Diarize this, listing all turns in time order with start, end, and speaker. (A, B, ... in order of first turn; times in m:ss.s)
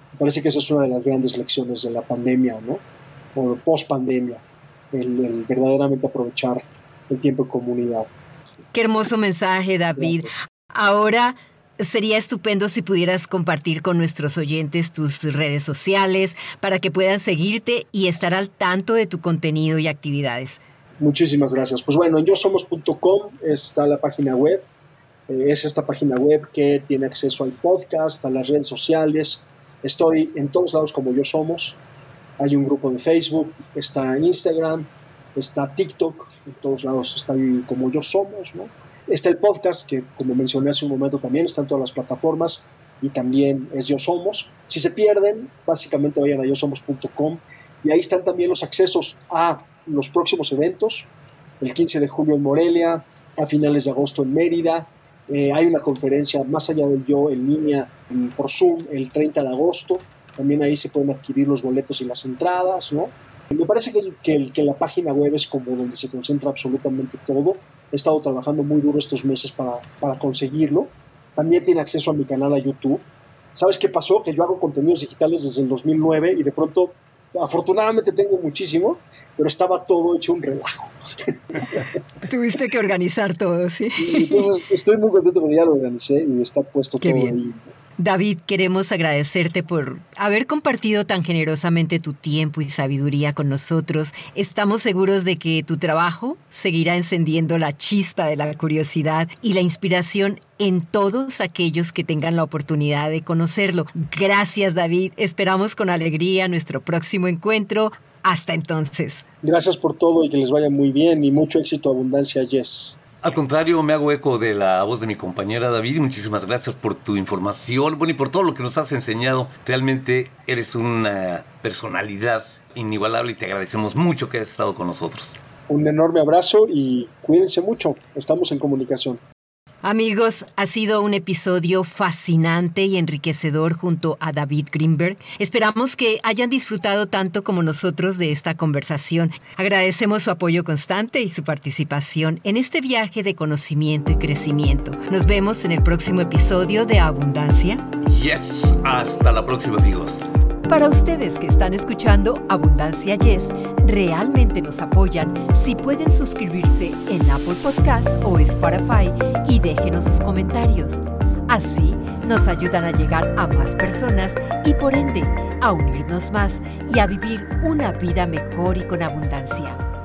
0:00.1-0:02.8 A
0:03.3-0:08.1 A
0:08.7-0:20.6 B
0:09.9-0:10.3 A
0:21.0-0:24.6 A
0:25.3-0:31.8 A
0:32.4-0:51.1 A
0:51.6-1:21.8 A
1:22.3-1:24.4 B
1:24.0-1:27.7 A
1:27.0-1:27.4 B
1:28.0-1:49.2 B
1:49.4-1:53.0 A
1:53.2-2:05.4 C
2:05.7-2:09.2 A
2:09.8-2:27.8 B
2:28.0-2:30.3 C
2:30.7-2:49.8 B